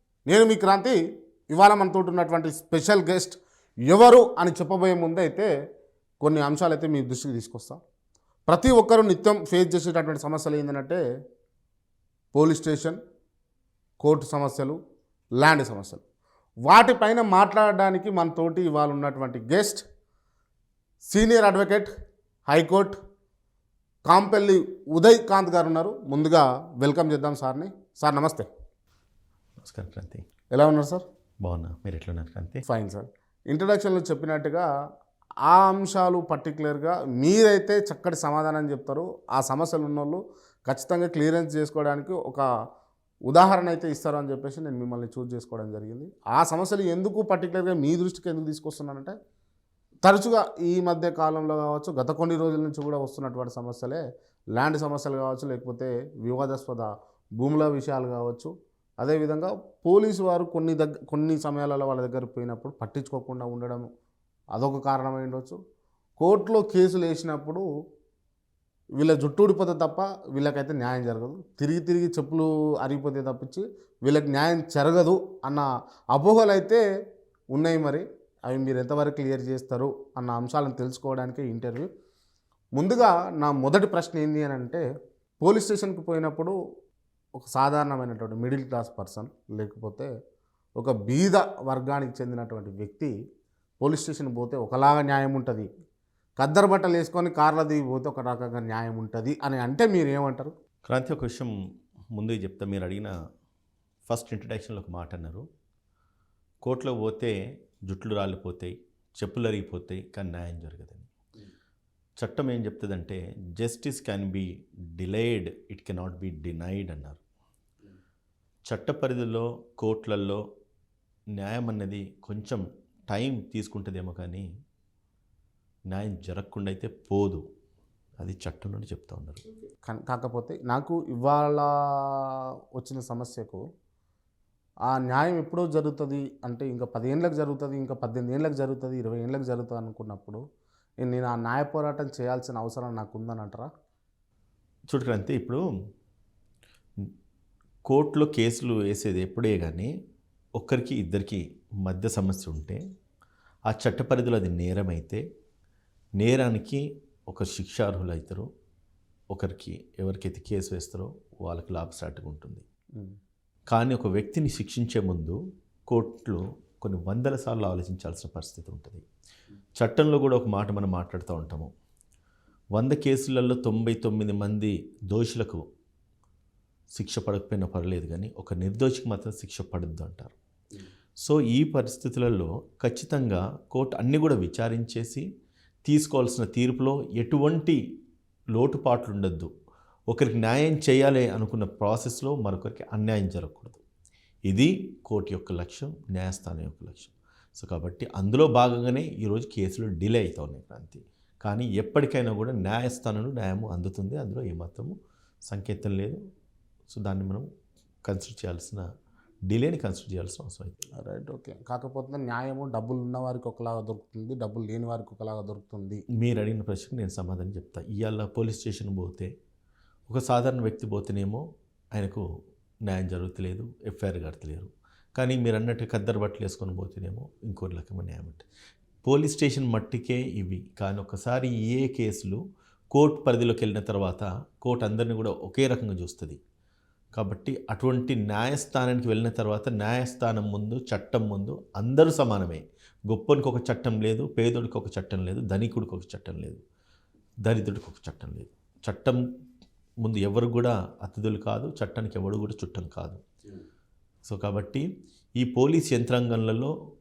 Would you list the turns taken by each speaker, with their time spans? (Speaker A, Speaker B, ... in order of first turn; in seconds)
Speaker A: 0.3-1.0, 1.5-5.5, 6.2-7.8, 8.5-11.0, 12.3-13.0, 14.0-14.8, 15.4-16.0, 16.7-19.8, 21.1-21.9, 22.5-22.9, 24.1-28.5, 30.5-31.0, 32.6-34.6, 35.5-42.4, 43.3-49.1, 50.0-54.0, 54.5-63.9, 64.5-65.6, 66.2-67.6, 69.0-76.8, 77.5-81.9, 82.8-84.8, 85.4-86.5, 87.4-90.1, 90.8-93.1, 93.8-95.7, 96.4-100.5, 129.9-131.7, 132.8-133.6, 134.9-140.4, 141.0-143.7, 211.0-216.0
Speaker B: 29.6-30.2, 31.4-32.6, 100.8-101.5, 102.1-103.1, 104.0-105.4, 106.6-107.3, 107.9-111.1, 112.2-117.2, 118.7-120.4, 121.4-124.4, 125.9-127.4, 128.2-129.4, 144.9-145.6, 147.8-149.9, 150.6-152.8, 153.7-155.2, 156.2-158.5, 159.3-162.6, 163.7-165.4, 165.9-169.0, 169.8-171.7, 172.7-175.6, 176.9-180.3, 181.2-185.2, 185.8-187.8, 188.5-189.5, 190.1-193.8, 194.5-204.9, 205.5-206.2, 206.9-207.4, 208.0-208.8, 209.5-210.7, 216.2-219.3, 220.1-222.2, 222.8-228.4, 229.0-232.4, 232.9-236.4, 237.1-246.6, 247.4-249.2, 250.0-253.2, 254.2-254.8, 255.4-256.7